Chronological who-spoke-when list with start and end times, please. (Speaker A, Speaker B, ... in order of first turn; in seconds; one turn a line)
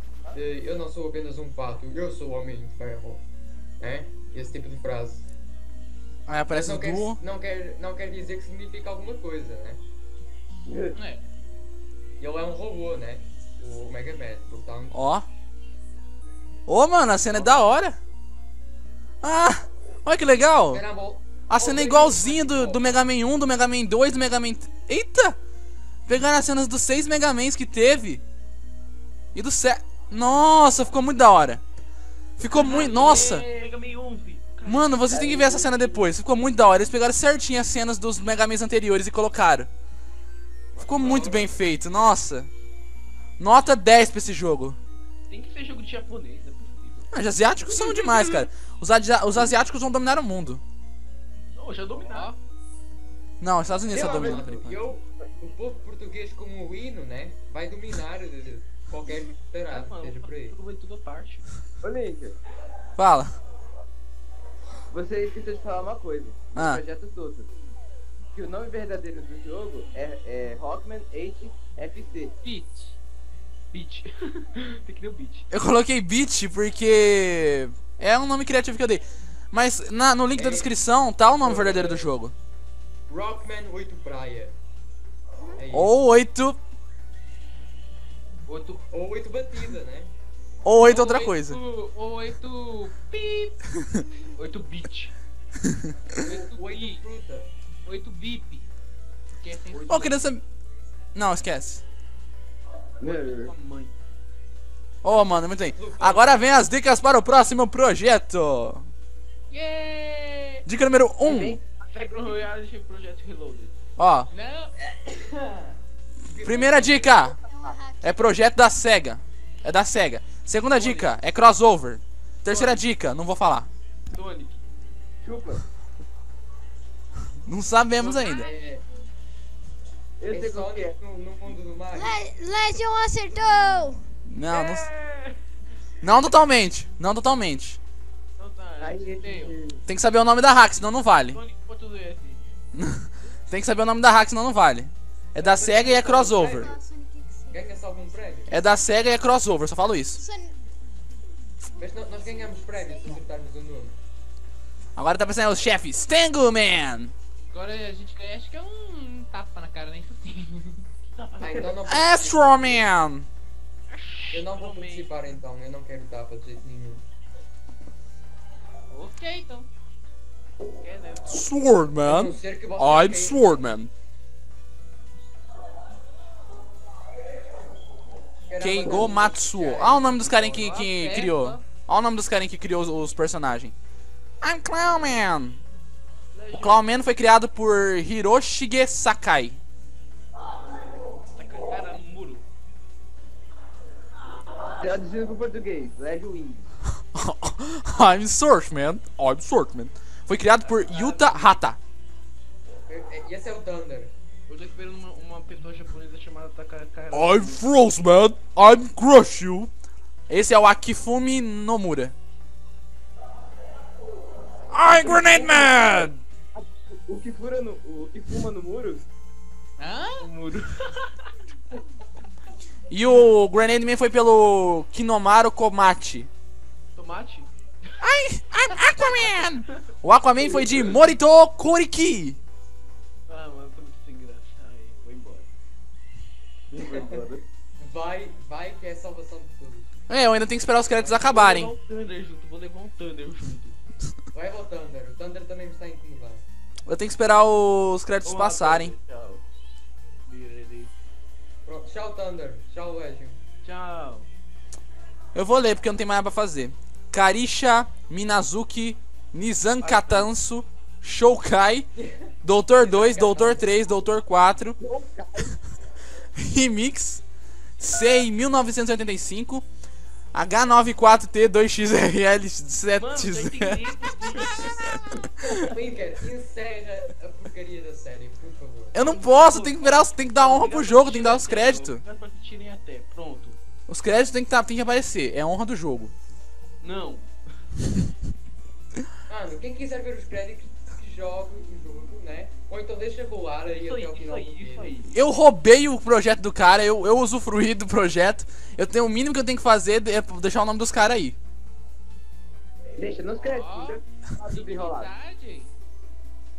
Speaker A: 0.3-3.2
Speaker A: 3.8-5.3
Speaker B: 6.3-7.2
Speaker A: 6.5-9.8
Speaker C: 10.7-10.9
Speaker D: 10.9-11.2
Speaker A: 12.2-15.0
Speaker B: 14.9-15.3
Speaker B: 16.7-18.0
Speaker A: 17.2-17.7
Speaker B: 19.2-20.8
Speaker A: 20.7-23.1
Speaker B: 21.5-25.4
Speaker B: 26.1-28.2
Speaker B: 29.3-31.6
Speaker B: 32.4-33.5
Speaker E: 32.5-35.1
Speaker B: 34.6-39.7
Speaker C: 35.1-35.9
Speaker E: 40.7-41.5
Speaker B: 40.8-42.5
Speaker A: 41.0-41.5
Speaker B: 43.4-44.8
Speaker E: 45.3-47.1
Speaker B: 47.1-50.6
Speaker E: 47.9-48.4
Speaker E: 51.5-52.4
Speaker D: 52.1-52.3
Speaker B: 53.4-54.8
Speaker A: 53.9-60.5
Speaker E: 59.7-61.5
Speaker C: 61.8-62.4
Speaker B: 63.0-63.4
Speaker C: 64.9-67.5
Speaker B: 66.5-66.8
Speaker C: 68.3-72.3
Speaker D: 72.4-73.0
Speaker E: 73.7-75.5
Speaker B: 75.5-82.3
Speaker A: 80.4-80.7
Speaker A: 81.4-82.1
Speaker A: 83.1-84.6
Speaker A: 85.6-85.9
Speaker B: 85.7-86.6
Speaker E: 88.5-88.8
Speaker A: 88.9-90.1
Speaker B: 90.6-91.6
Speaker D: 90.8-93.6
Speaker E: 94.3-95.1
Speaker A: 96.2-97.5
Speaker D: 96.2-97.0
Speaker D: 97.8-98.7
Speaker D: 99.4-100.1
Speaker E: 99.7-100.1
Speaker B: 99.9-100.4
Speaker B: 101.1-101.8
Speaker E: 103.0-104.0
Speaker C: 103.0-103.5
Speaker B: 105.0-108.9
Speaker A: 105.7-106.4
Speaker D: 109.5-110.6
Speaker B: 110.7-111.6
Speaker C: 111.3-112.4
Speaker E: 111.9-113.8
Speaker B: 114.0-114.3
Speaker D: 114.3-114.7
Speaker A: 114.9-115.8
Speaker A: 116.3-117.4
Speaker B: 116.3-117.4
Speaker F: 117.6-118.0
Speaker B: 118.0-123.7
Speaker E: 120.7-121.2
Speaker E: 122.5-122.8
Speaker E: 124.1-124.6
Speaker C: 125.2-125.6
Speaker B: 127.5-128.5
Speaker A: 128.0-128.8
Speaker C: 130.2-131.0
Speaker A: 130.3-132.2
Speaker F: 131.9-134.0
Speaker B: 134.3-134.9
Speaker E: 134.5-135.4
Speaker B: 136.0-137.8
Speaker E: 138.4-139.6
Speaker C: 138.8-139.8
Speaker B: 139.9-141.4
Speaker E: 141.3-142.4
Speaker B: 142.8-146.8
Speaker A: 145.4-146.8
Speaker F: 146.3-147.6
Speaker A: 147.5-148.5
Speaker B: 148.5-150.2
Speaker F: 150.1-150.6
Speaker A: 151.8-154.0
Speaker B: 155.0-157.1
Speaker D: 157.5-160.8
Speaker E: 161.1-161.7
Speaker A: 161.4-162.9
Speaker B: 161.9-163.3
Speaker E: 163.9-165.2
Speaker A: 164.3-167.1
Speaker D: 168.9-169.7
Speaker E: 170.8-171.9
Speaker B: 171.3-173.9
Speaker A: 172.0-173.7
Speaker A: 178.5-180.8
Speaker B: 178.6-183.7
Speaker D: 180.9-181.6
Speaker B: 184.4-185.6
Speaker E: 186.3-186.8
Speaker B: 186.6-189.6
Speaker E: 191.3-192.4
Speaker C: 194.8-196.7
Speaker B: 197.1-201.8
Speaker E: 200.6-201.6
Speaker A: 202.9-204.1
Speaker E: 204.5-207.7
Speaker B: 207.1-209.7
Speaker B: 210.3-212.1
Speaker B: 214.7-216.1
Speaker C: 215.1-215.4
Speaker E: 215.4-215.8
Speaker E: 217.1-219.0
Speaker D: 219.8-220.2
Speaker E: 220.2-221.3
Speaker B: 222.9-226.3
Speaker E: 226.9-227.5
Speaker B: 228.0-232.4
Speaker C: 230.4-231.0
Speaker E: 233.3-235.5
Speaker C: 236.7-237.4
Speaker A: 237.8-239.9
Speaker B: 240.1-241.7
Speaker A: 240.9-241.4
Speaker E: 241.2-243.8
Speaker A: 244.3-246.4
Speaker B: 246.9-248.9
Speaker E: 248.2-249.4
Speaker E: 250.3-250.9
Speaker A: 251.7-253.4
Speaker E: 253.6-254.3
Speaker B: 255.3-261.9
Speaker E: 259.8-260.3
Speaker B: 262.4-264.8
Speaker E: 262.8-263.6
Speaker A: 262.9-263.5
Speaker C: 264.8-265.6
Speaker B: 266.4-267.2
Speaker B: 267.8-269.6
Speaker B: 270.3-275.5
Speaker E: 273.0-275.1
Speaker A: 275.4-279.0
Speaker B: 278.9-282.0
Speaker E: 279.0-283.6
Speaker B: 283.9-286.1
Speaker E: 286.8-287.3
Speaker A: 289.3-294.9
Speaker E: 293.8-295.1
Speaker B: 295.1-301.4
Speaker C: 303.0-305.1
Speaker D: 303.4-305.7